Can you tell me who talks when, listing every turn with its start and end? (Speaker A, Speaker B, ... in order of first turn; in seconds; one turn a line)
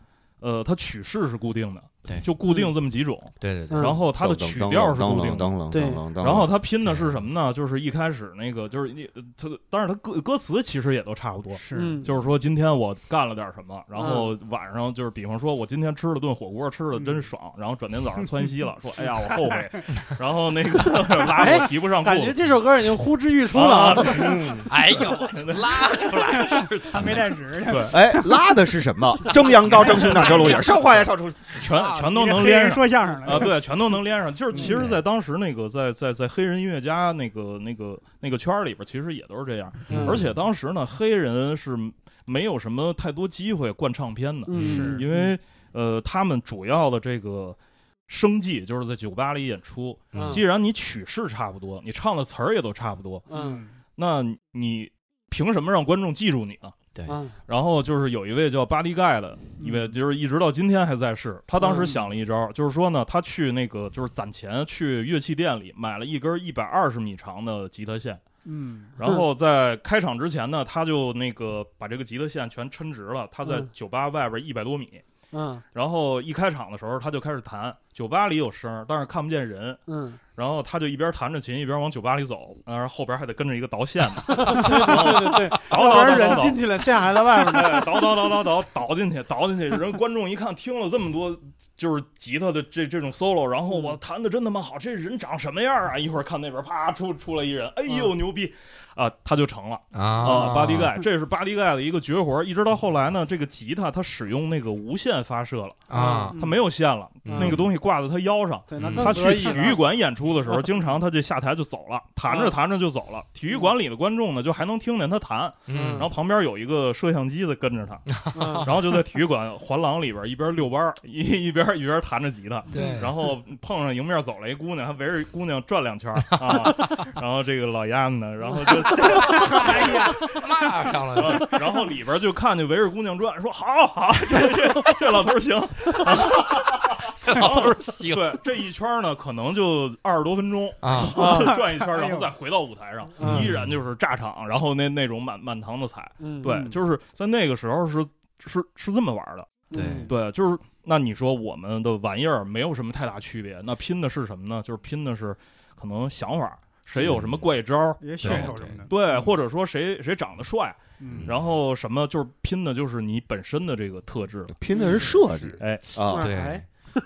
Speaker A: 0.4-5.5
Speaker B: 2.4-2.7
Speaker C: 3.4-3.9
Speaker B: 3.7-4.0
Speaker D: 4.1-6.5
Speaker B: 5.7-6.0
Speaker A: 6.2-22.4
Speaker C: 6.8-7.2
Speaker E: 11.5-12.0
Speaker B: 11.7-12.1
Speaker B: 13.9-14.3
Speaker E: 19.4-19.8
Speaker B: 21.3-24.4
Speaker A: 23.5-26.1
Speaker D: 24.0-24.7
Speaker C: 24.6-27.3
Speaker E: 26.5-28.4
Speaker A: 27.7-27.9
Speaker D: 27.9-31.6
Speaker A: 29.6-53.2
Speaker E: 31.8-33.6
Speaker E: 34.5-34.9
Speaker C: 34.6-35.0
Speaker B: 39.9-40.2
Speaker B: 44.5-45.3
Speaker E: 44.5-45.0
Speaker C: 50.1-50.4
Speaker B: 50.1-50.4
Speaker B: 53.3-53.6
Speaker E: 53.3-53.7
Speaker A: 54.0-56.8
Speaker C: 56.9-57.2
Speaker B: 57.1-57.4
Speaker A: 57.5-68.2
Speaker E: 59.6-59.9
Speaker B: 61.6-62.0
Speaker E: 68.4-68.9
Speaker A: 69.0-75.0
Speaker B: 75.3-75.6
Speaker A: 75.7-79.8
Speaker B: 79.9-80.2
Speaker A: 80.3-130.4
Speaker B: 84.3-88.1
Speaker C: 99.9-101.0
Speaker B: 100.2-100.6
Speaker C: 105.9-106.4
Speaker B: 105.9-106.6
Speaker C: 107.2-107.7
Speaker B: 107.3-107.6
Speaker B: 108.7-109.8
Speaker C: 108.8-109.2
Speaker B: 112.3-112.5
Speaker C: 115.7-116.1
Speaker B: 115.8-116.0
Speaker C: 118.1-118.7
Speaker B: 118.3-118.7
Speaker C: 122.7-123.1
Speaker C: 126.5-126.8
Speaker C: 128.7-131.6
Speaker E: 129.2-130.2
Speaker A: 131.2-164.5
Speaker C: 136.1-136.4
Speaker C: 137.2-138.4
Speaker C: 140.8-141.2
Speaker B: 141.1-141.6
Speaker E: 141.2-142.3
Speaker B: 143.2-143.5
Speaker C: 143.2-143.8
Speaker B: 146.2-146.7
Speaker E: 146.4-146.8
Speaker B: 149.7-150.1
Speaker C: 149.7-150.1
Speaker D: 156.9-157.3
Speaker E: 158.0-158.9
Speaker C: 158.2-158.8
Speaker E: 161.0-161.3
Speaker D: 164.5-166.3
Speaker B: 164.7-165.1
Speaker A: 165.6-165.8
Speaker B: 166.0-166.7
Speaker C: 166.1-166.7